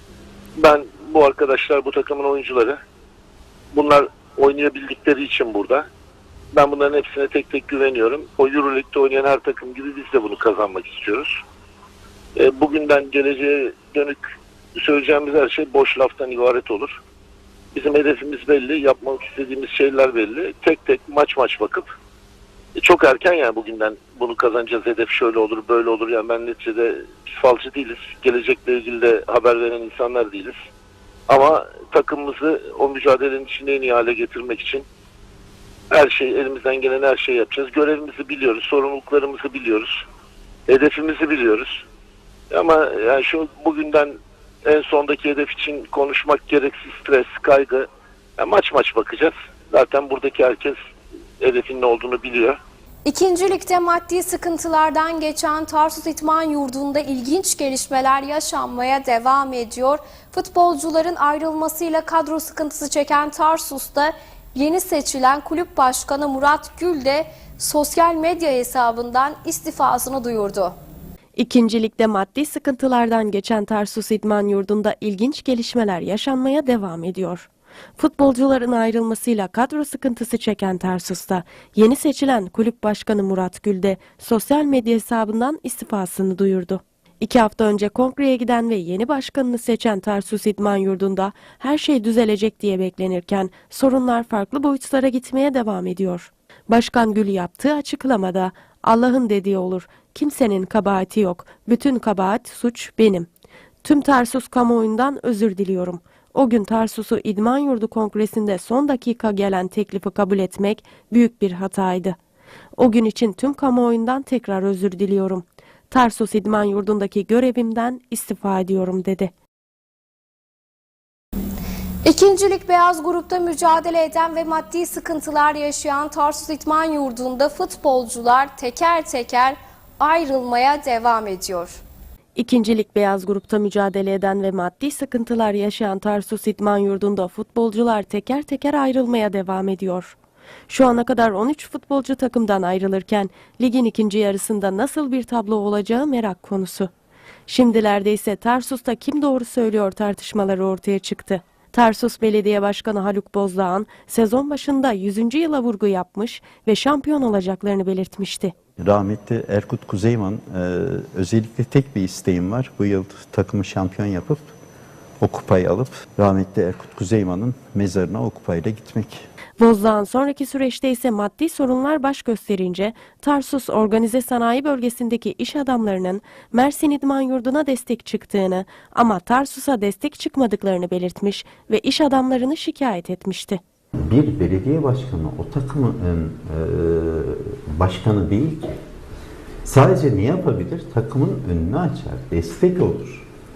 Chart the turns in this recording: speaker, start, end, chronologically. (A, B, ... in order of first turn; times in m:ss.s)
0:00.6-0:02.8 A
0:03.7-0:05.8 A
0:06.5-0:11.4 A
0:12.4-0:17.0 A
0:17.7-0:21.9 A
0:22.8-0:30.6 A
0:31.3-0:34.8 A
0:35.9-0:40.0 A
0:40.7-0:41.8 A
0:42.5-0:47.9 A
0:48.4-0:50.8 A
0:51.4-0:52.6 A
0:53.0-1:10.7 B
1:11.4-1:43.3 C
1:43.8-1:52.2 C
1:52.8-1:59.3 C
2:02.0-2:11.8 B
2:12.4-2:20.2 C
2:20.7-2:26.9 C
2:27.5-2:38.5 C
2:38.8-2:44.5 D
2:45.2-2:49.2 D
2:49.6-3:03.6 C
3:04.0-3:08.8 D
3:09.6-3:13.2 D